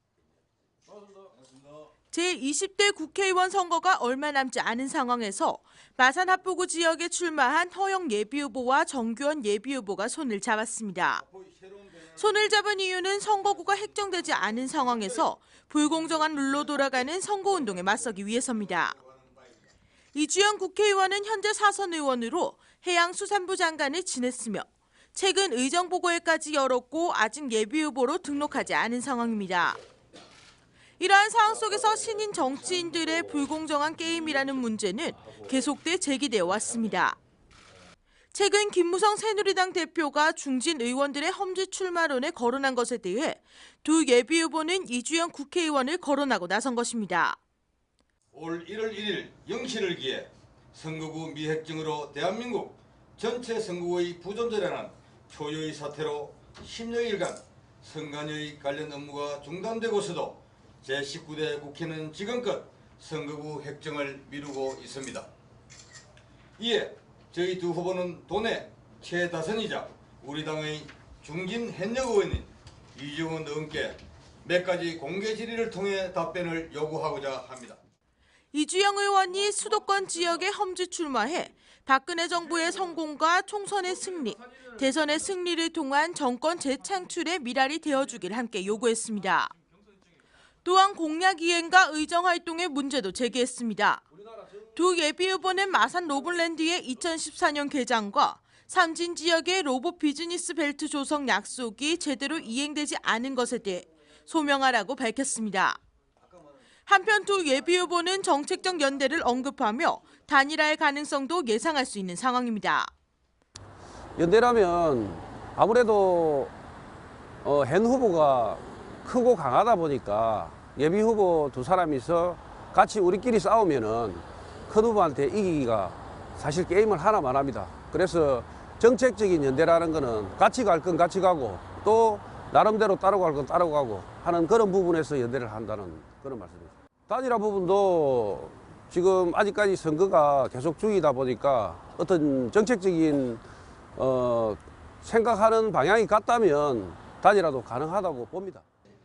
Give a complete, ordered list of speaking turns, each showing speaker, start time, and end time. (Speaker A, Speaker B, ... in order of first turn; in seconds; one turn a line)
Speaker A: 2.1-11.2
Speaker B: 11.2-12.7
Speaker A: 12.2-18.9
Speaker B: 13.3-15.3
Speaker B: 15.8-19.7
Speaker A: 20.1-29.8
Speaker A: 31.0-37.2
Speaker A: 38.3-47.4
Speaker B: 48.3-65.3
Speaker B: 66.6-77.8
Speaker A: 78.5-89.5
Speaker A: 90.6-94.0
Speaker A: 94.7-105.8
Speaker A: 106.9-112.9
Speaker C: 114.2-116.5
Speaker C: 117.4-143.4
Speaker C: 143.9-148.6